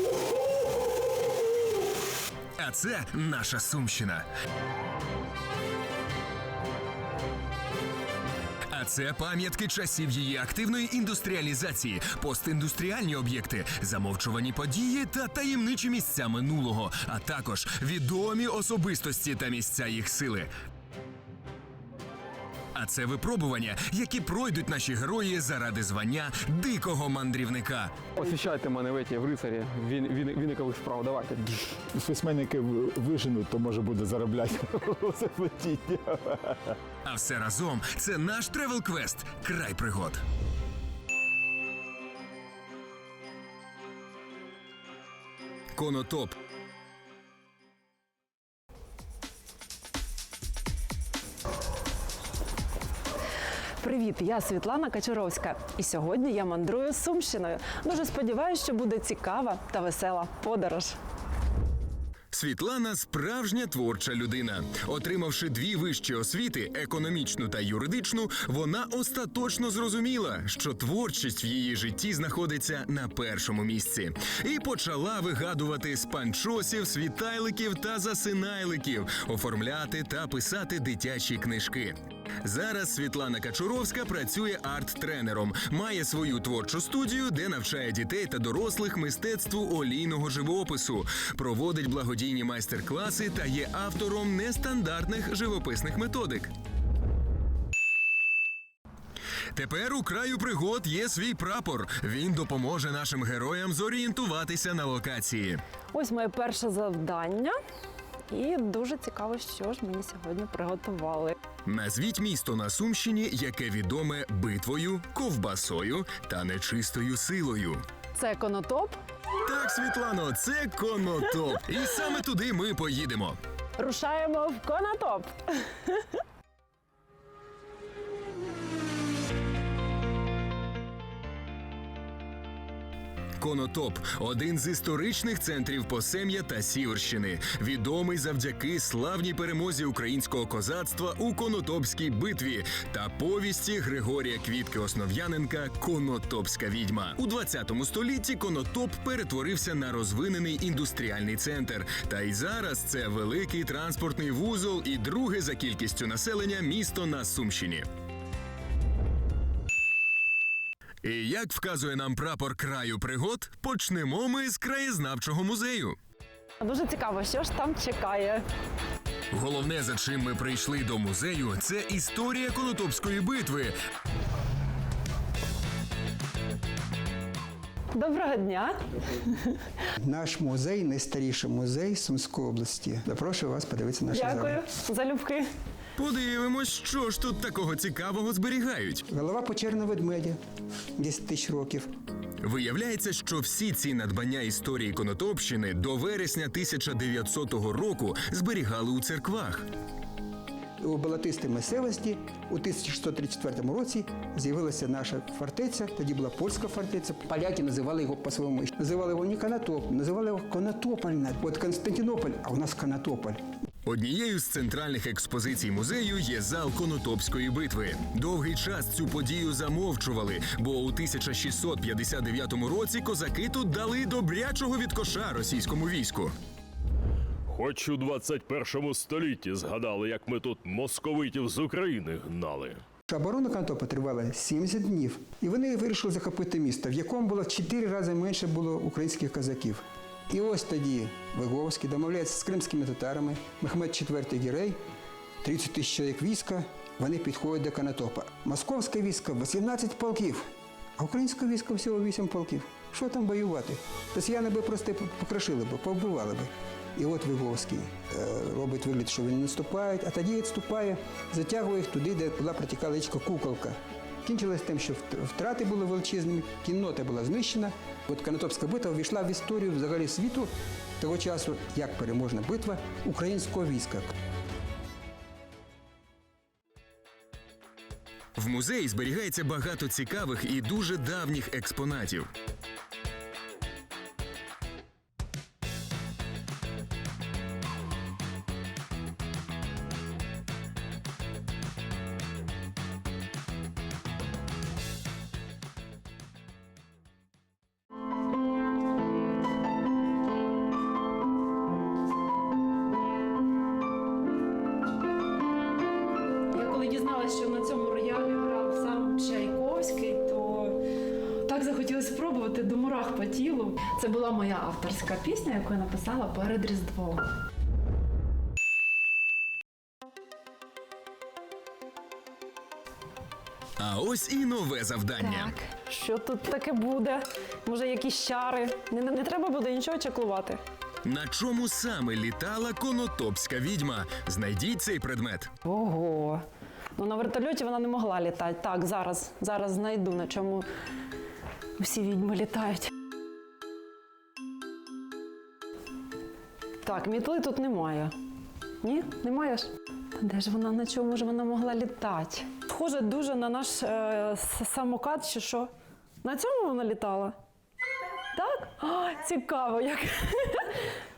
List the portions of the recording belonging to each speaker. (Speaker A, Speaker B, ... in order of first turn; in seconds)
Speaker A: 2.6-4.2, 8.7-20.5, 22.7-27.9, 37.0-40.2, 45.7-46.4, 62.3-96.5, 99.5-105.6, 111.6-117.8, 119.4-123.4, 133.4-157.8, 161.0-166.0, 169.3-173.7, 186.0-189.0, 192.4-199.7, 213.8-226.3, 278.4-282.3, 323.8-325.5, 331.0-335.5
Speaker B: 28.1-31.6
Speaker C: 31.8-36.5
Speaker D: 53.8-61.0, 105.9-107.5, 108.3-111.4, 118.1-119.0, 123.8-126.0, 166.6-168.4, 177.9-179.6, 184.1-185.5, 306.5-310.8, 311.4-317.2, 325.2-330.6, 335.6-336.4, 336.9-340.7, 341.8-342.9, 346.8-348.1, 348.8-355.7, 356.2-357.3, 358.3-360.7
Speaker E: 180.0-184.6, 189.1-190.4, 191.0-191.9, 200.8-213.4, 233.1-244.8, 245.4-250.5, 251.0-274.1
Speaker F: 227.5-232.8